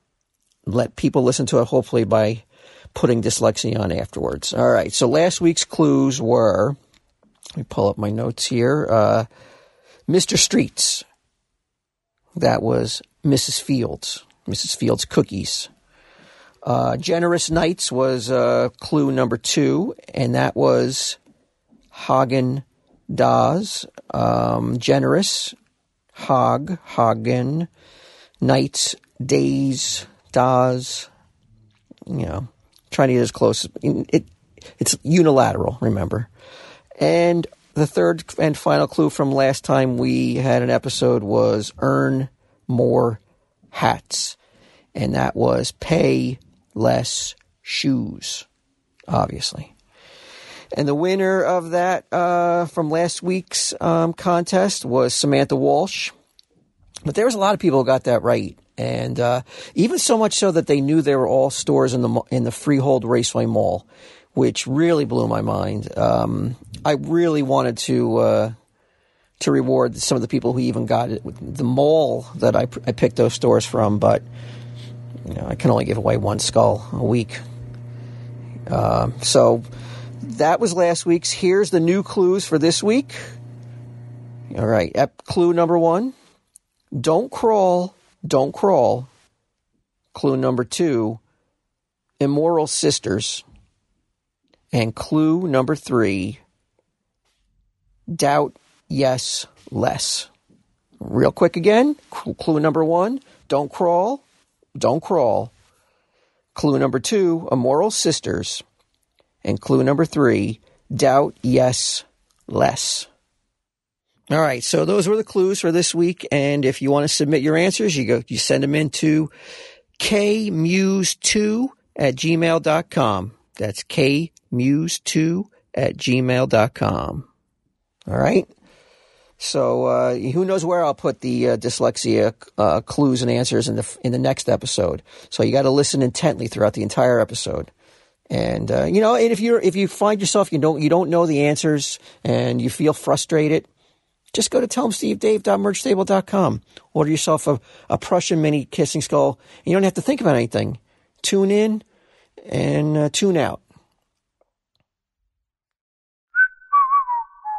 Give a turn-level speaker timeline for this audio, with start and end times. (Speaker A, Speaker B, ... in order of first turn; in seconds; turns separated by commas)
Speaker A: 0.7-2.4, Speaker A: 3.0-6.8, Speaker A: 7.6-9.3, Speaker A: 10.1-11.1, Speaker A: 12.4-15.7, Speaker A: 16.6-21.2, Speaker A: 21.9-25.6, Speaker A: 26.1-27.7, Speaker A: 28.4-31.1, Speaker A: 32.1-36.3, Speaker A: 37.0-43.2, Speaker A: 43.7-44.4, Speaker A: 45.0-48.5, Speaker A: 49.1-49.7, Speaker A: 50.7-56.1, Speaker A: 57.0-68.5, Speaker A: 69.4-74.2, Speaker A: 75.3-77.4, Speaker A: 78.7-79.6, Speaker A: 80.2-83.3, Speaker A: 84.5-86.1, Speaker A: 86.9-89.1, Speaker A: 90.1-91.2, Speaker A: 92.2-93.4, Speaker A: 94.7-96.4, Speaker A: 98.1-100.3, Speaker A: 101.0-104.2, Speaker A: 104.8-105.5, Speaker A: 106.5-108.6, Speaker A: 109.4-113.1, Speaker A: 114.3-119.3, Speaker A: 120.0-127.3, Speaker A: 128.1-128.5, Speaker A: 129.4-137.7, Speaker A: 138.3-143.7, Speaker A: 144.3-151.8, Speaker A: 152.5-153.6